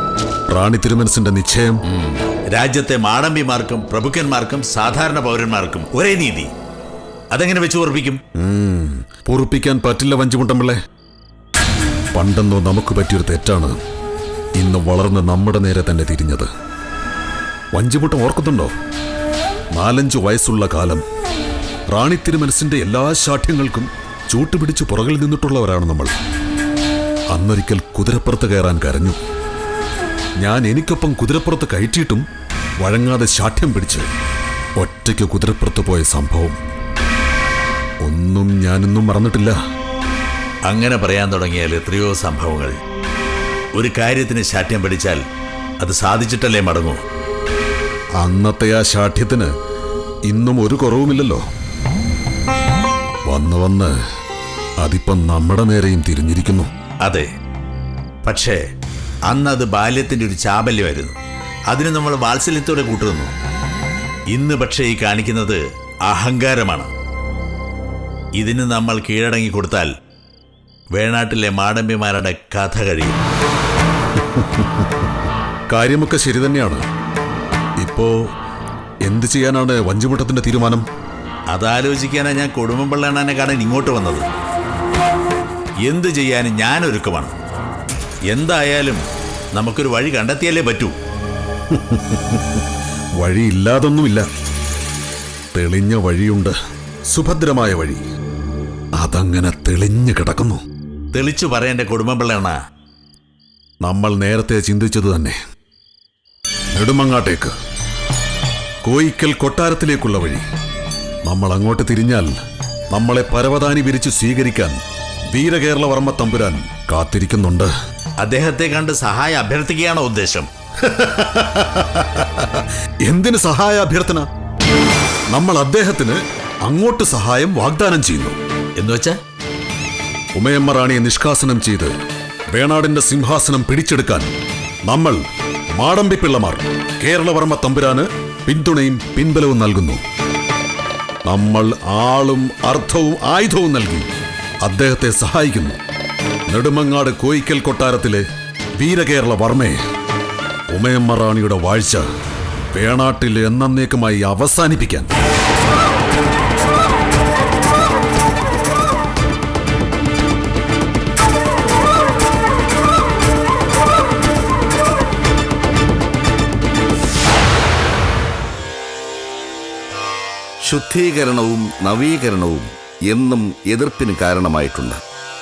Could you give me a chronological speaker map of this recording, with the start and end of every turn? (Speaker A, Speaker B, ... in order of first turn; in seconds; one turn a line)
Speaker A: 0.5-1.8
Speaker B: 1.9-6.5
Speaker B: 7.3-8.2
Speaker A: 8.4-10.8
Speaker A: 12.1-13.8
Speaker A: 14.6-16.5
Speaker A: 17.7-18.7
Speaker A: 19.7-21.0
Speaker A: 21.9-26.1
Speaker A: 27.3-29.2
Speaker A: 30.4-32.2
Speaker A: 32.8-34.1
Speaker A: 34.8-36.6
Speaker A: 38.0-39.5
Speaker B: 40.7-42.7
Speaker B: 43.8-45.2
Speaker B: 45.8-47.0
Speaker A: 48.2-49.5
Speaker A: 50.3-51.4
Speaker A: 53.3-53.9
Speaker A: 54.8-56.7
Speaker B: 58.2-58.6
Speaker B: 59.3-61.1
Speaker B: 61.7-63.3
Speaker B: 64.3-66.9
Speaker B: 68.4-69.9
Speaker B: 70.9-73.2
Speaker A: 74.2-75.0
Speaker A: 75.7-76.8
Speaker A: 77.8-78.1
Speaker A: 79.0-80.8
Speaker B: 81.5-84.2
Speaker B: 85.8-87.3
Speaker B: 88.3-89.0
Speaker B: 89.5-90.9
Speaker A: 91.7-92.6
Speaker A: 93.2-94.2
Speaker A: 95.5-96.5
Speaker A: 97.1-98.0
Speaker A: 99.0-100.6
Speaker B: 101.1-102.5
Speaker A: 103.8-105.3
Speaker A: 106.7-107.5
Speaker A: 108.8-110.4
Speaker A: 111.2-112.3
Speaker A: 112.9-114.8
Speaker A: 115.3-117.7
Speaker B: 118.2-120.5
Speaker A: 120.8-124.2
Speaker A: 125.3-128.4
Speaker B: 128.8-129.2
Speaker A: 130.3-131.9
Speaker A: 132.5-134.3
Speaker A: 134.9-135.2
Speaker A: 135.8-140.0
Speaker A: 141.2-144.1
Speaker A: 144.6-145.8
Speaker A: 146.5-148.2
Speaker A: 148.8-149.8
Speaker A: 150.7-152.1
Speaker A: 152.7-155.1
Speaker C: 170.6-175.0